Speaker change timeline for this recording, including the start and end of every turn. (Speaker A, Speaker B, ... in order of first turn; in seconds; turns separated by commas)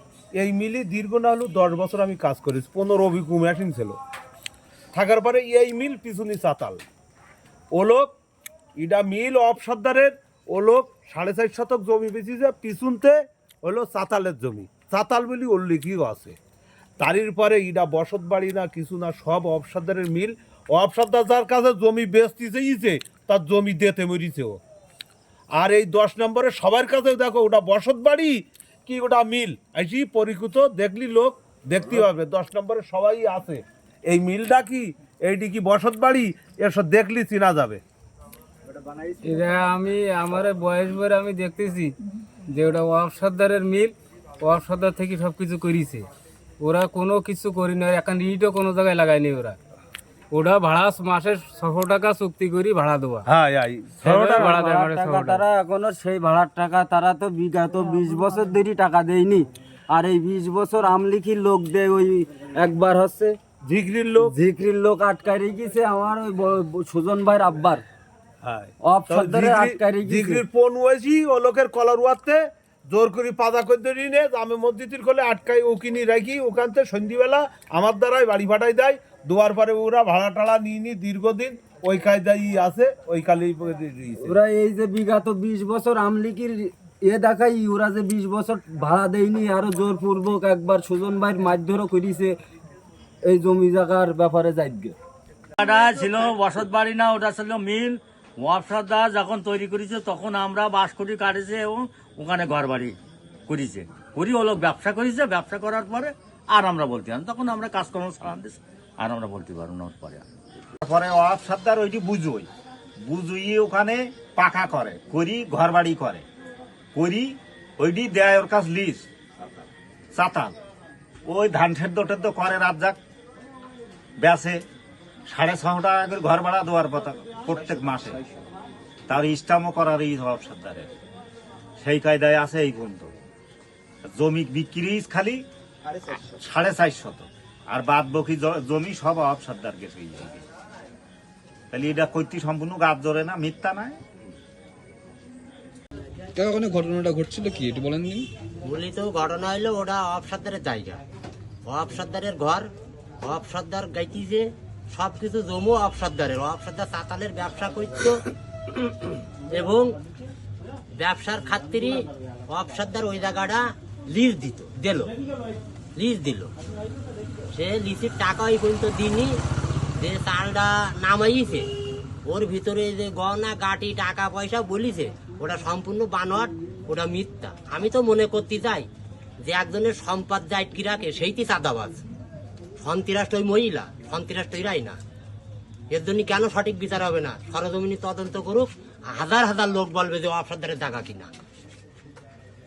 Speaker A: 0.3-4.0, Speaker A: 4.9-6.8, Speaker A: 7.7-8.1, Speaker A: 8.8-16.4, Speaker A: 17.0-24.6, Speaker A: 25.6-37.8, Speaker B: 39.2-41.9, Speaker B: 42.5-46.0, Speaker B: 46.6-49.6, Speaker B: 50.3-53.2, Speaker A: 53.2-54.5, Speaker B: 54.0-55.4, Speaker C: 54.4-63.4, Speaker A: 63.6-64.3, Speaker C: 64.2-67.8, Speaker A: 68.4-84.3, Speaker C: 68.8-70.4, Speaker C: 84.2-92.3, Speaker C: 93.2-94.9, Speaker D: 95.6-96.1, Speaker E: 96.0-96.9, Speaker E: 98.4-100.1, Speaker E: 100.7-101.2, Speaker E: 102.2-102.7, Speaker E: 104.2-105.6, Speaker E: 106.5-108.2, Speaker E: 109.0-110.0, Speaker D: 110.8-112.5, Speaker D: 113.0-116.2, Speaker D: 116.9-119.0, Speaker D: 120.1-120.5, Speaker D: 121.2-123.0, Speaker D: 124.2-124.6, Speaker D: 125.3-128.2, Speaker D: 129.1-130.9, Speaker D: 131.8-133.1, Speaker D: 134.1-135.4, Speaker D: 136.1-140.4, Speaker D: 141.7-144.0, Speaker F: 146.3-148.2, Speaker G: 148.6-151.0, Speaker G: 151.7-152.7, Speaker G: 153.2-159.9, Speaker G: 160.9-165.1, Speaker G: 165.9-166.5, Speaker G: 167.5-169.3, Speaker G: 170.0-171.6, Speaker G: 172.2-178.9, Speaker G: 179.4-182.0, Speaker G: 182.8-185.0, Speaker G: 185.9-191.3